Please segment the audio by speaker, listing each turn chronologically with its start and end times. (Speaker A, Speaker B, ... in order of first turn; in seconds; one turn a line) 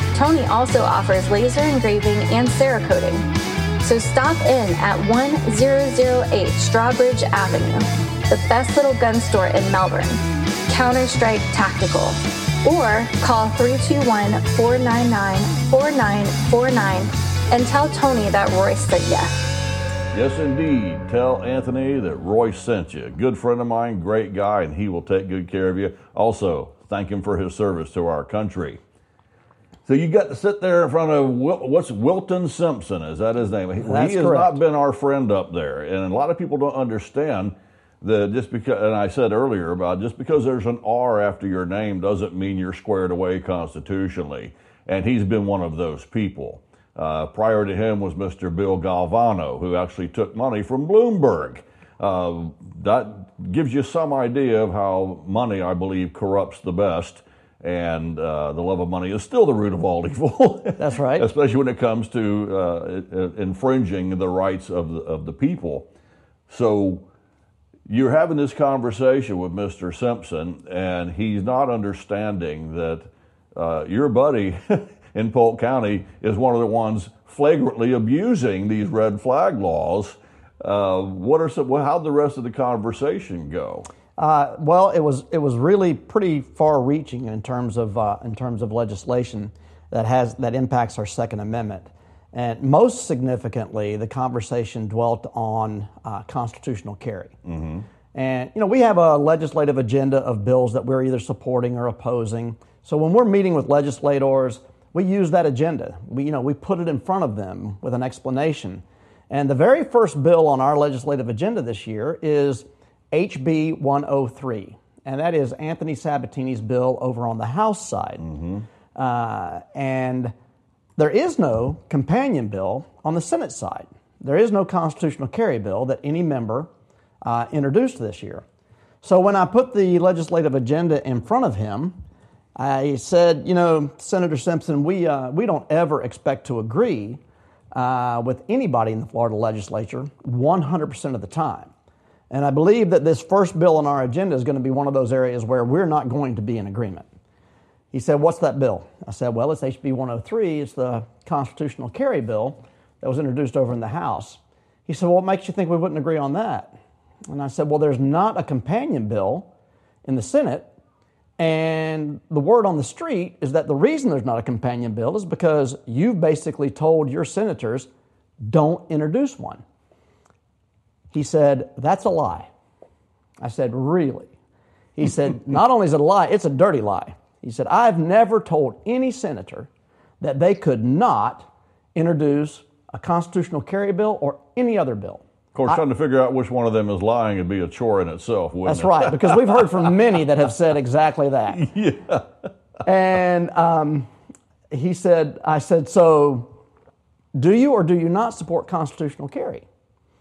Speaker A: 0.1-3.2
Speaker A: 3.8-19.3
Speaker B: 20.1-28.8
Speaker B: 29.9-65.9
Speaker C: 33.8-34.6
Speaker C: 60.8-61.3
Speaker B: 66.5-67.0
Speaker B: 67.9-83.9
Speaker C: 84.2-97.3
Speaker B: 97.5-97.8
Speaker C: 98.1-118.2
Speaker B: 118.2-118.6
Speaker C: 118.9-120.3
Speaker C: 121.0-126.7
Speaker C: 127.2-128.4
Speaker C: 129.0-132.0
Speaker C: 132.6-137.2
Speaker C: 137.7-141.7
Speaker C: 142.3-147.1
Speaker C: 147.9-156.8
Speaker C: 157.3-159.5
Speaker C: 160.0-160.7
Speaker C: 161.4-167.9
Speaker C: 168.4-169.6
Speaker C: 171.1-172.5
Speaker C: 173.4-174.3
Speaker C: 174.9-179.7
Speaker C: 180.2-185.8
Speaker B: 185.5-189.6
Speaker C: 188.6-191.7
Speaker B: 191.6-192.5
Speaker C: 192.8-194.1
Speaker C: 194.7-196.5
Speaker C: 197.3-199.6